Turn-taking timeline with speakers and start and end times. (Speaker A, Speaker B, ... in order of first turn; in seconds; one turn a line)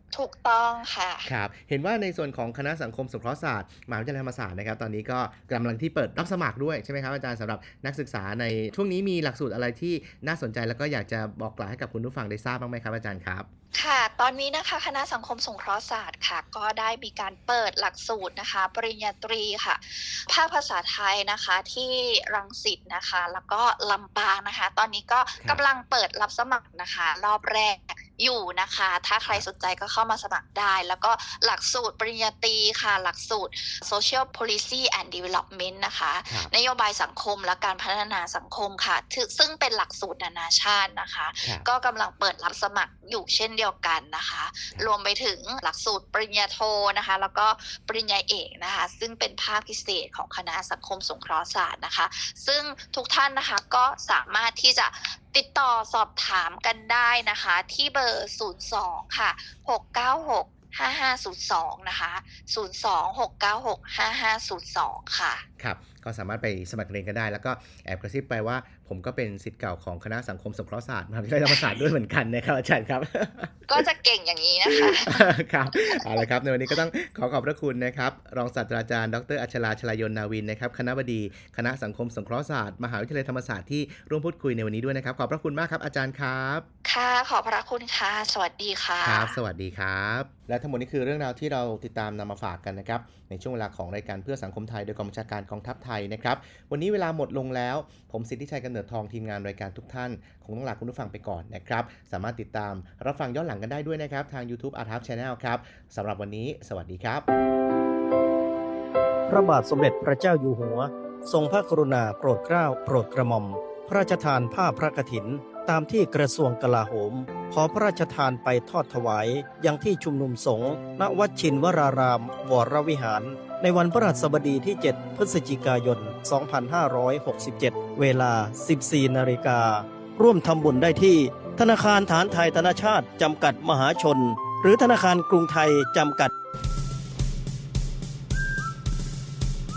Speaker A: 0.1-1.3
Speaker B: 1.3-13.5
Speaker A: 13.7-65.5
Speaker B: 65.6-73.9
Speaker A: 71.5-71.8
Speaker A: 73.7-76.1
Speaker B: 74.7-86.7
Speaker A: 86.8-89.4
Speaker B: 89.0-107.2
Speaker C: 109.3-136.3